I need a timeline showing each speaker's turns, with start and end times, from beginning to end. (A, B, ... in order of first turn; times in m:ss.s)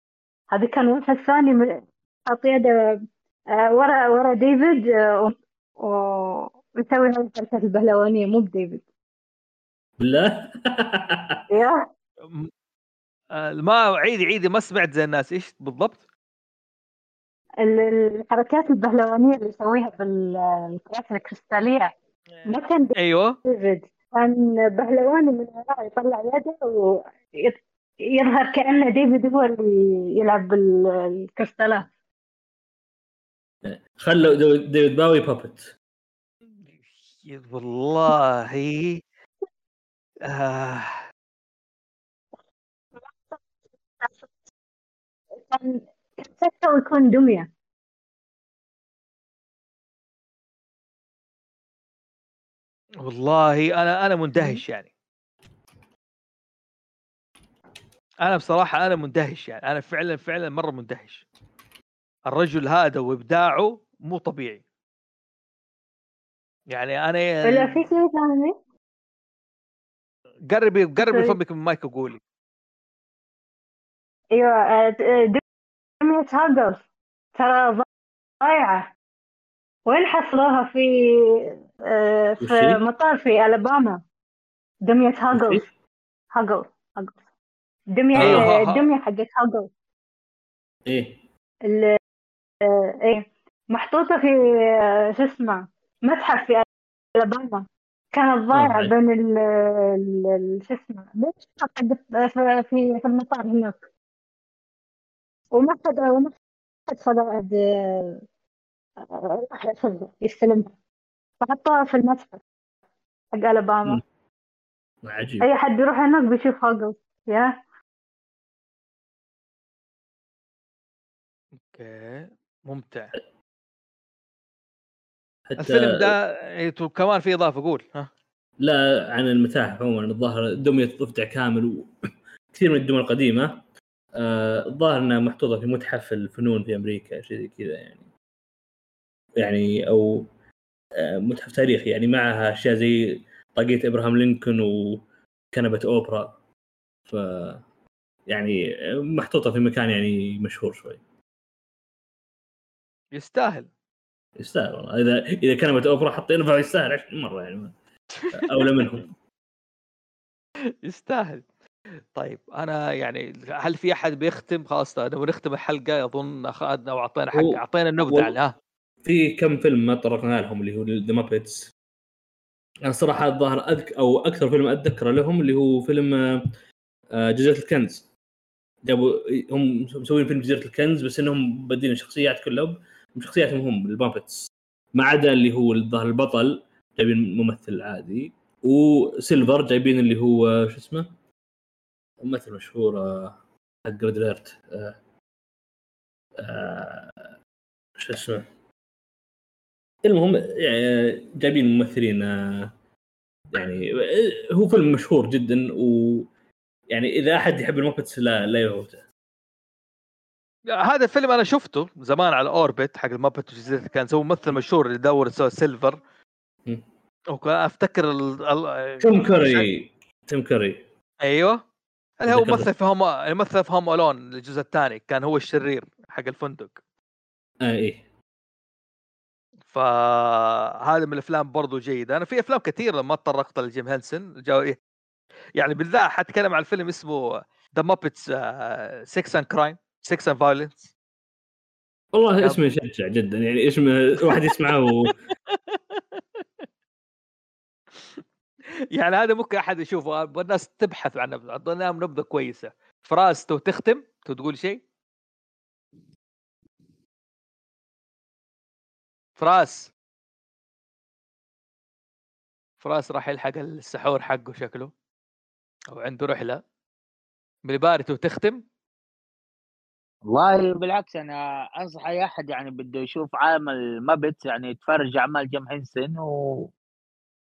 0:00.5-0:02.8 A
0:03.5-0:08.8 A
0:10.0-0:11.4 B
0:11.5-0:11.9 A
0:13.3-0:16.0 C
0:17.6-0:21.9 A
0:22.4-0:23.4 C
0:22.5-0:31.9 A
0:33.6-0:35.7 B
0:36.7-0:39.0 C
0:40.2-0:41.0 C
0:43.1-0:43.3 A
0:44.0-0:44.3 A
0:45.4-0:47.5 A
0:53.0-0:54.9 C
0:58.2-1:01.2 C
1:02.3-1:04.6 C
1:06.7-1:07.8 C
1:07.4-1:08.5 A
1:10.5-1:12.2 C
1:11.0-1:11.4 A
1:14.3-1:15.4 A
1:16.0-1:16.8 A
1:17.4-1:17.8 A
1:18.4-1:18.9 A
1:19.8-1:24.0 A
1:22.4-1:22.8 B
1:24.8-1:25.6 A
1:25.3-1:25.6 B
1:26.3-1:27.2 A
1:27.9-1:29.7 A
1:28.1-1:28.5 B
1:28.2-1:28.8 C
1:30.9-1:31.2 B
1:31.6-1:32.0 A
1:32.6-1:36.6 A
1:37.2-1:43.8 A
1:38.5-1:38.9 B
1:45.5-1:46.3 A
1:46.9-1:48.2 A
1:49.0-1:50.7 A
1:51.4-1:52.4 A
1:53.3-1:54.0 A
1:55.0-1:55.5 B
1:55.4-1:57.6 A
2:01.7-2:03.1 C
2:05.5-2:06.1 B
2:05.6-2:08.1 C
2:08.6-2:11.9 B
2:12.5-2:13.6 B
2:14.1-2:18.1 B
2:19.4-2:20.2 B
2:21.0-2:26.4 B
2:27.1-2:27.6 B
2:28.3-2:31.0 B
2:33.1-2:33.7 C
2:34.4-2:37.7 B
2:38.2-2:38.6 C
2:38.3-2:39.1 B
2:40.8-2:41.4 C
2:42.1-2:48.5 C
2:47.3-2:48.4 B
2:49.0-2:51.7 B
2:52.8-2:56.5 B
2:57.1-2:58.0 B
2:58.8-3:11.1 B
3:12.2-3:15.0 B
3:16.4-3:17.3 B
3:18.0-3:18.5 B
3:20.0-3:22.7 B
3:23.5-3:26.3 B
3:26.9-3:29.0 B
3:30.8-3:36.0 C
3:37.3-3:39.7 C
3:39.0-3:40.8 B
3:41.2-3:41.6 C
3:42.2-3:46.8 C
3:42.3-3:42.7 B
3:47.6-3:48.0 B
3:49.7-3:54.8 C
3:55.6-4:00.9 C
4:02.1-4:05.1 B
4:04.3-4:06.4 C
4:08.9-4:14.8 C
4:19.4-4:19.9 C
4:22.8-4:24.9 C
4:25.9-4:26.6 C
4:27.6-4:28.6 C
4:30.3-4:36.7 D